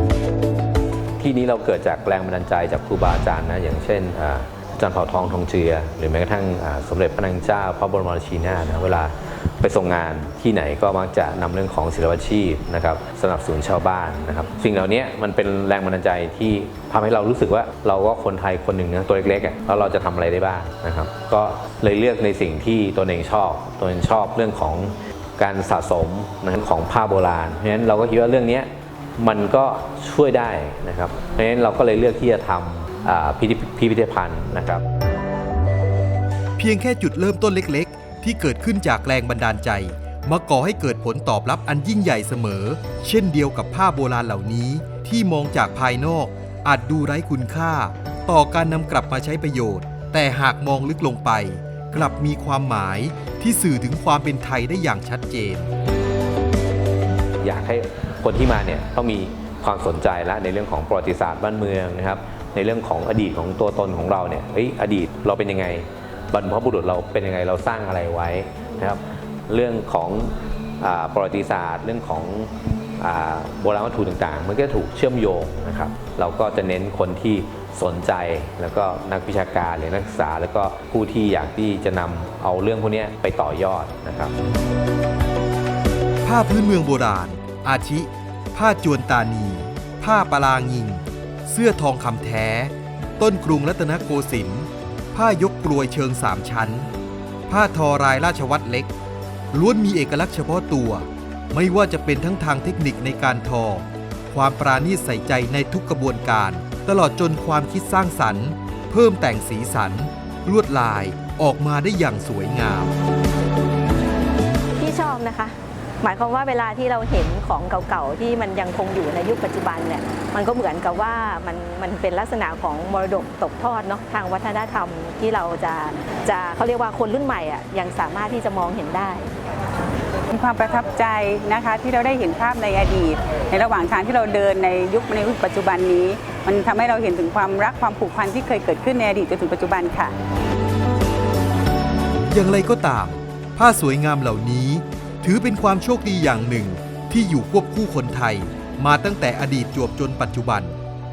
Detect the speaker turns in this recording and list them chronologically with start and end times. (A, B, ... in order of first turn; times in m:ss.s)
0:01.2-0:34.8 A
0:36.6-0:55.7 B
0:57.4-1:24.3 A
1:26.2-1:36.9 B
1:37.5-1:38.9 B
1:39.5-1:52.9 B
1:54.8-2:09.3 C
2:10.3-2:20.1 D
2:22.3-2:30.8 B